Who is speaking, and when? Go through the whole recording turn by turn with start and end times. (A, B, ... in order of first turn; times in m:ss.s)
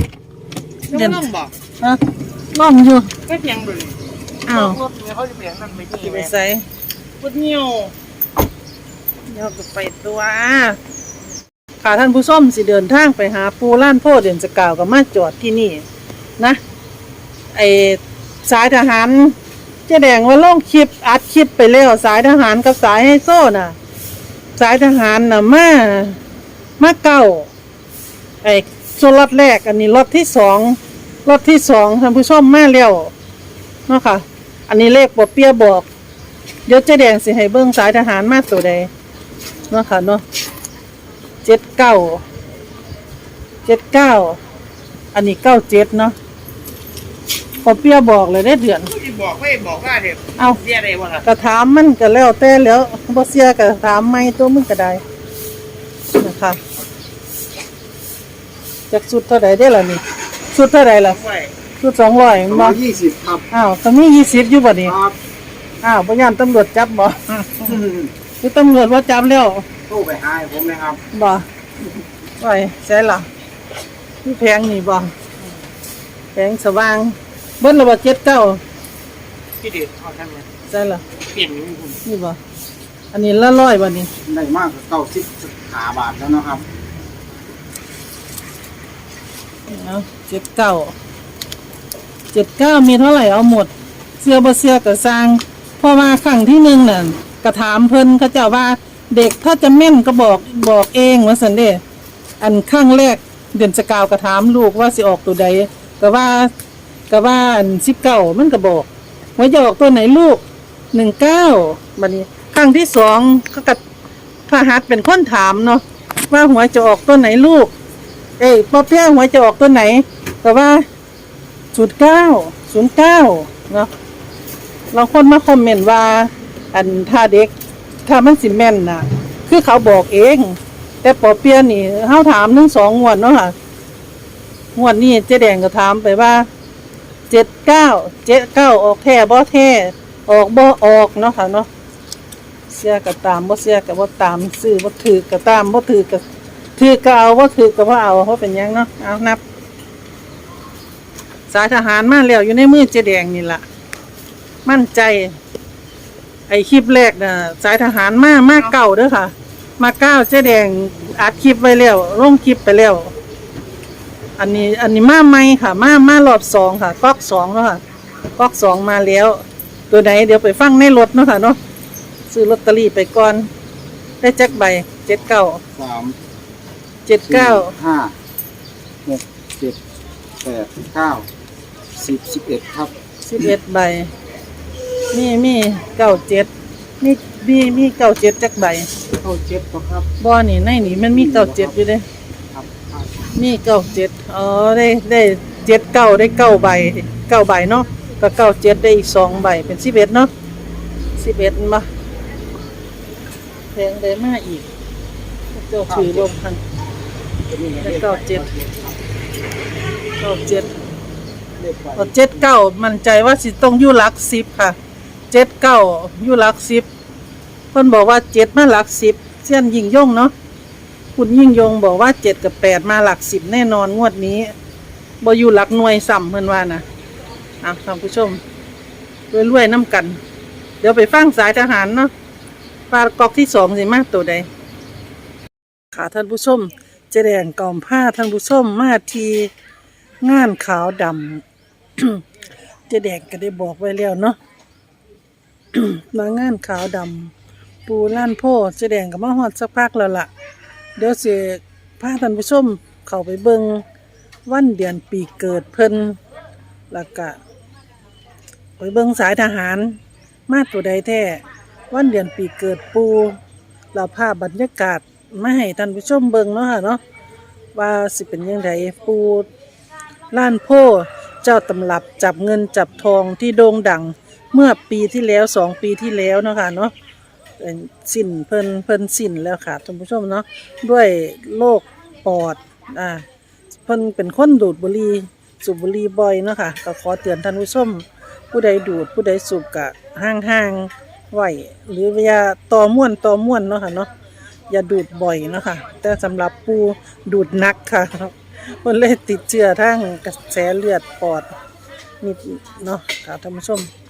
0:00.9-0:01.5 A
0:00.9-0:01.3 B
0:02.5-0:03.1 B
0:03.3-0:04.0 A
0:04.5-0:04.8 B
0:04.5-0:06.2 A
0:05.9-0:06.7 B
0:07.2-0:07.9 A
0:09.3-0:10.8 B
0:11.8-0:15.8 B
0:17.5-0:19.4 B
0:19.9-0:23.8 B
0:24.6-0:26.2 B
0:26.8-0:27.5 B
0:28.4-0:33.1 B
0:33.9-0:35.9 B
0:36.7-0:38.9 B
0:39.7-0:40.2 B
0:41.4-0:42.2 B
0:43.7-0:44.4 B
0:45.1-0:46.2 B
0:47.6-0:48.9 B
0:49.0-0:50.2 A
0:50.4-0:50.6 B
0:50.7-0:51.2 A
0:51.2-0:55.0 B
0:56.2-0:56.6 B
0:58.9-1:01.2 B
1:01.8-1:02.8 B
1:02.5-1:03.4 C
1:03.5-1:05.0 B
1:04.8-1:05.2 C
1:05.8-1:07.8 B
1:07.8-1:08.1 C
1:08.4-1:09.6 B
1:09.9-1:11.0 C
1:11.1-1:11.5 B
1:12.4-1:13.3 B
1:14.2-1:15.1 B
1:16.3-1:18.6 B
1:19.6-1:20.4 A
1:20.7-1:21.0 B
1:21.3-1:21.9 A
1:22.0-1:22.4 B
1:23.1-1:24.1 B
1:24.2-1:26.6 C
1:29.7-1:30.9 B
1:32.3-1:41.8 B
1:42.4-1:46.5 B
1:47.1-1:50.4 B
1:50.9-1:53.8 B
1:54.5-1:57.7 B
1:58.4-2:00.8 B
2:01.7-2:03.9 B
2:04.9-2:07.5 B
2:08.1-2:13.6 B
2:14.8-2:16.5 B
2:17.3-2:21.7 B
2:22.7-2:26.2 B
2:26.8-2:29.4 B
2:31.5-2:33.6 B
2:34.6-2:35.4 B
2:36.5-2:43.1 B
2:44.4-2:47.8 B
2:48.4-2:51.6 B
2:52.3-2:53.5 B
2:54.2-2:55.6 B
2:55.8-2:56.2 C
2:57.1-2:57.7 B
2:57.3-2:58.1 C
2:59.0-2:59.8 C
3:00.4-3:01.3 C
3:02.0-3:02.9 C
3:03.3-3:04.1 B
3:05.1-3:06.5 B
3:07.0-3:08.9 B
3:09.2-3:10.1 C
3:10.2-3:12.0 B
3:11.0-3:11.7 C
3:12.5-3:13.1 C
3:13.4-3:20.3 B
3:21.2-3:21.9 B
3:23.7-3:24.7 B
3:25.5-3:26.6 B
3:25.9-3:26.2 C
3:27.5-3:28.9 C
3:27.8-3:28.5 B
3:30.2-3:30.7 B
3:31.6-3:32.3 C
3:32.0-3:34.8 B
3:35.3-3:36.9 B
3:37.7-3:40.3 B
3:41.2-3:44.5 B
3:45.2-3:46.8 B
3:47.6-3:48.4 B
3:49.3-3:50.2 B
3:50.8-3:52.1 B
3:52.9-3:54.5 B
3:55.9-3:59.5 B
4:00.2-4:01.4 B
4:02.0-4:02.2 B
4:02.9-4:04.4 B
4:05.7-4:07.3 B
4:07.9-4:10.3 B
4:11.0-4:13.8 B
4:14.5-4:16.2 B
4:16.9-4:17.4 B
4:18.8-4:23.4 B
4:23.9-4:27.0 B
4:27.8-4:29.5 B
4:30.3-4:36.9 B
4:37.6-4:43.2 B
4:43.8-4:54.1 B
4:54.7-5:01.5 B
5:02.2-5:03.9 B